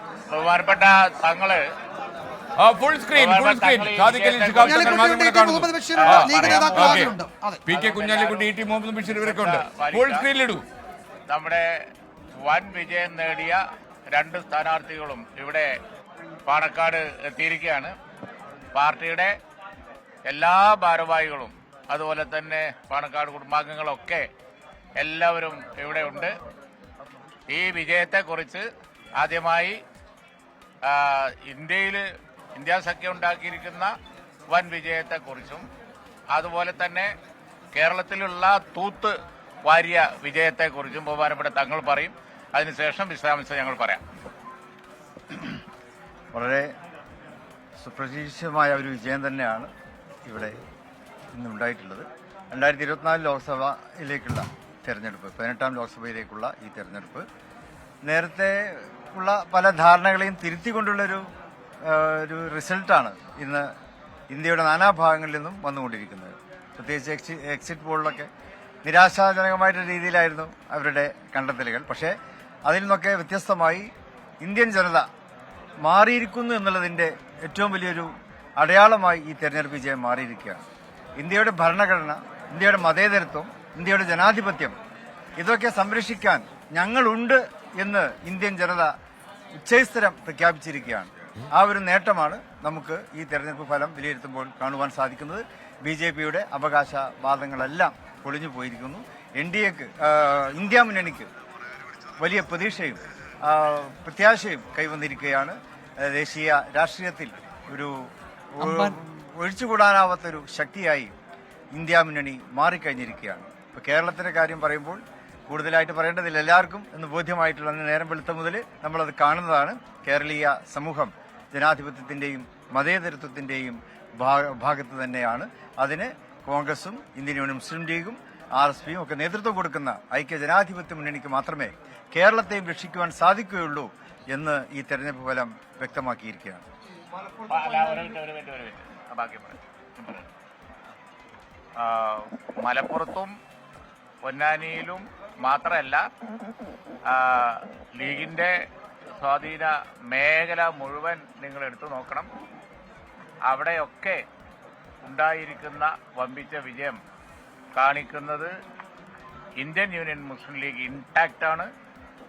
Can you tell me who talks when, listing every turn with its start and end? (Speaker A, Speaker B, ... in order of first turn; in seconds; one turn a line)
Speaker A: 0.3-1.6
Speaker B: 2.6-7.1
Speaker A: 3.1-5.2
Speaker C: 4.6-7.6
Speaker A: 6.0-7.1
Speaker B: 7.7-10.6
Speaker A: 7.7-8.5
Speaker A: 9.1-10.2
Speaker A: 11.3-11.7
Speaker A: 12.4-15.7
Speaker A: 16.4-17.9
Speaker A: 18.7-19.3
Speaker A: 20.3-24.3
Speaker A: 25.0-26.3
Speaker A: 27.5-28.6
Speaker A: 29.2-29.8
Speaker A: 30.8-33.9
Speaker A: 34.5-35.6
Speaker A: 36.3-37.1
Speaker A: 37.7-44.0
Speaker D: 46.3-46.7
Speaker D: 47.8-49.7
Speaker D: 50.2-50.6
Speaker D: 51.3-57.2
Speaker D: 58.0-61.2
Speaker D: 61.8-63.7
Speaker D: 64.3-68.3
Speaker D: 68.8-72.1
Speaker D: 72.7-73.9
Speaker D: 74.4-75.1
Speaker D: 75.8-80.6
Speaker D: 81.2-84.8
Speaker D: 85.4-88.9
Speaker D: 89.6-101.3
Speaker D: 102.2-111.1
Speaker C: 108.6-109.0
Speaker D: 111.7-136.6
Speaker A: 137.4-140.3
Speaker A: 141.8-143.3
Speaker A: 144.2-146.0
Speaker A: 147.1-148.6
Speaker A: 149.2-152.3
Speaker A: 153.5-154.2
Speaker A: 155.0-157.0
Speaker A: 157.8-158.5
Speaker A: 159.6-161.7